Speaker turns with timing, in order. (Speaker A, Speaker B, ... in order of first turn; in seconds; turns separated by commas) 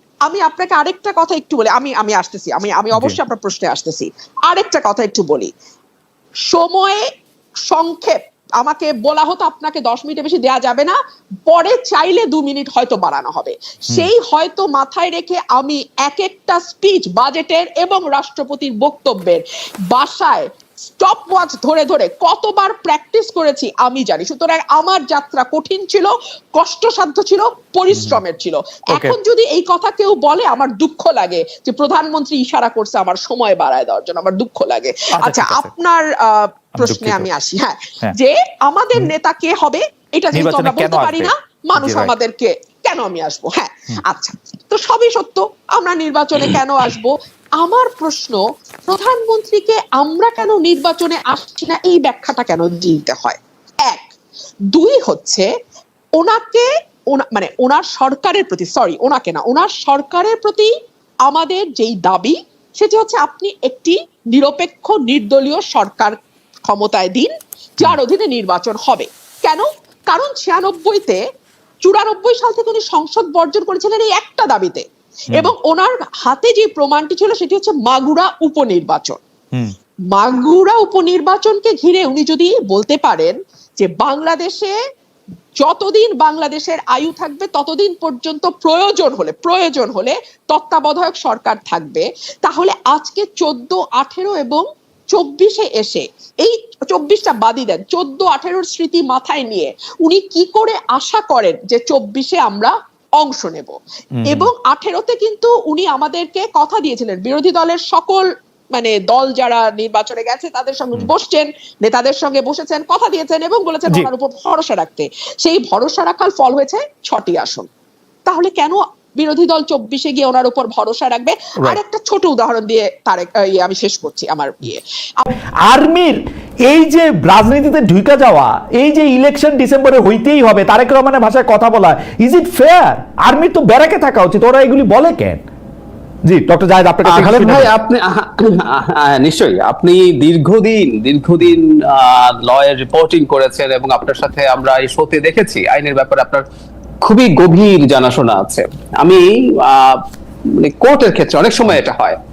Speaker A: 0.2-5.5, Speaker A: 6.5-7.0, Speaker A: 7.7-54.1, Speaker B: 35.1-35.7, Speaker B: 36.8-37.3, Speaker B: 40.3-42.1, Speaker A: 54.7-55.5, Speaker A: 56.2-60.7, Speaker A: 61.3-71.2, Speaker A: 71.8-79.2, Speaker A: 80.1-84.8, Speaker A: 85.6-103.8, Speaker B: 104.2-104.5, Speaker A: 104.3-117.7, Speaker A: 118.3-125.2, Speaker B: 125.7-135.4, Speaker B: 136.3-137.7, Speaker C: 137.1-146.4, Speaker C: 147.0-152.2